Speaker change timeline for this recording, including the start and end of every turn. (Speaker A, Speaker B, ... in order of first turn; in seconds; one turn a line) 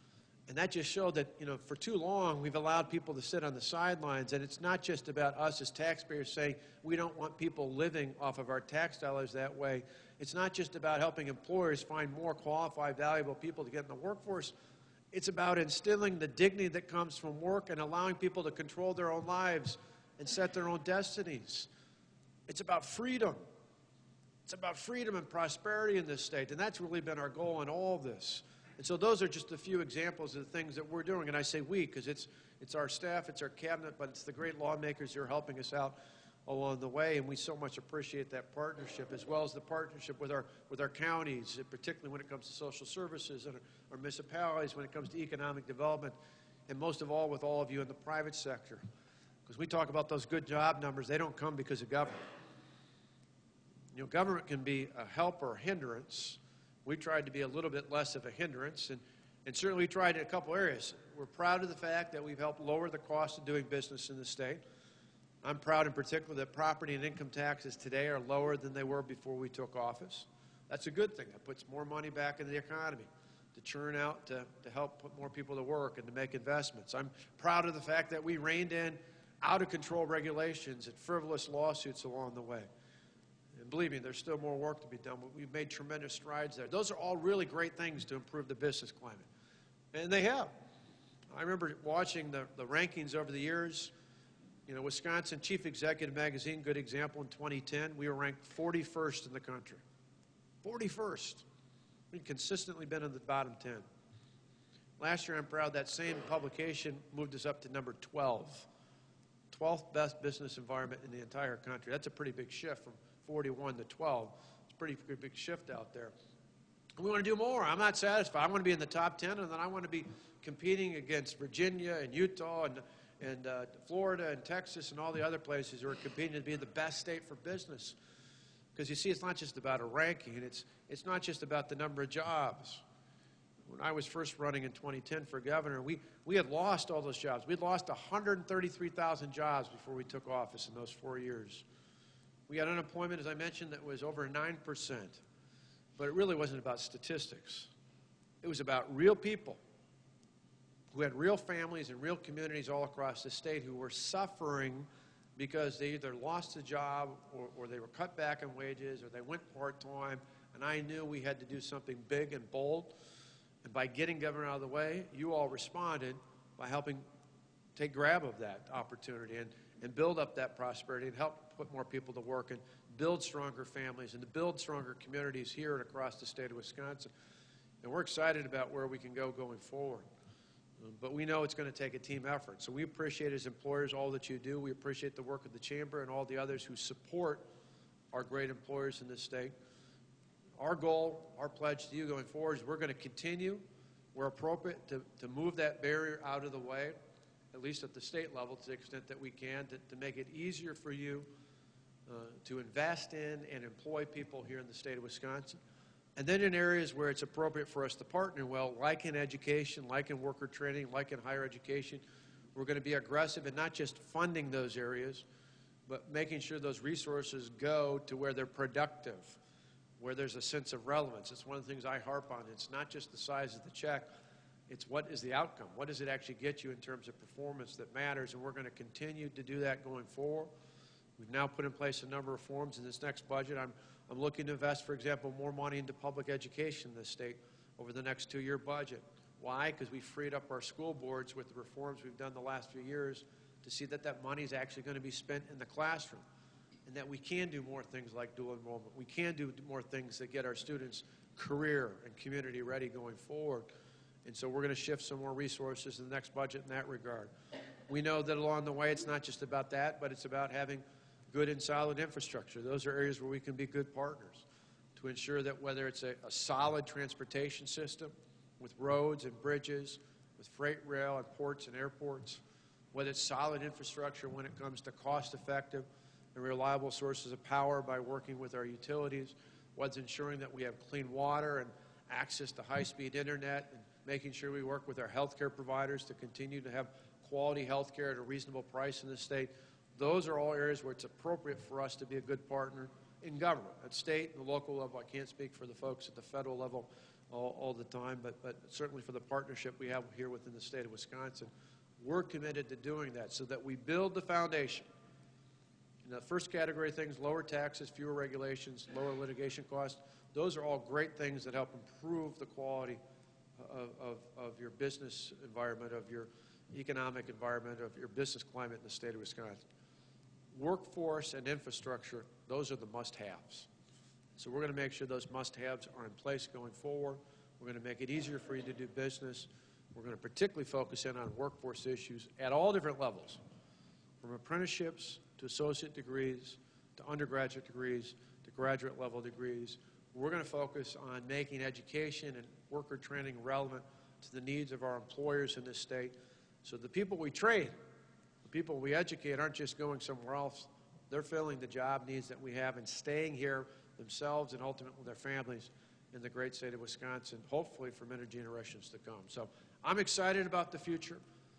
Speaker A: 0.5-14.5
Speaker A: 15.1-21.7
Speaker A: 22.5-23.4
Speaker A: 24.5-46.2
Speaker A: 46.7-48.8
Speaker A: 49.5-52.2
Speaker A: 53.9-64.6
Speaker A: 65.4-82.7
Speaker A: 83.6-89.3
Speaker A: 89.9-90.5
Speaker A: 91.3-93.9
Speaker A: 94.7-99.8
Speaker A: 100.6-101.4
Speaker A: 102.1-103.9
Speaker A: 105.0-108.7
Speaker A: 109.5-116.1
Speaker A: 117.0-128.0
Speaker A: 128.8-132.8
Speaker A: 133.7-141.6
Speaker A: 142.5-145.2
Speaker A: 146.0-147.7
Speaker A: 148.4-149.6
Speaker A: 150.9-162.9
Speaker A: 163.6-167.1
Speaker A: 167.8-177.1
Speaker A: 177.8-180.1
Speaker A: 180.8-187.5
Speaker A: 188.1-189.5
Speaker A: 190.6-197.0
Speaker A: 197.5-201.3
Speaker A: 202.1-205.6
Speaker A: 206.2-212.0
Speaker A: 212.6-215.2
Speaker A: 215.9-219.4
Speaker A: 220.0-224.1
Speaker A: 224.7-230.5
Speaker A: 231.2-246.2
Speaker A: 246.9-253.7
Speaker A: 254.2-257.3
Speaker A: 257.9-264.4
Speaker A: 265.0-272.4
Speaker A: 272.9-304.9
Speaker A: 306.0-313.0
Speaker A: 313.6-319.6
Speaker A: 320.5-323.7
Speaker A: 324.4-333.4
Speaker A: 334.2-347.8
Speaker A: 348.4-361.2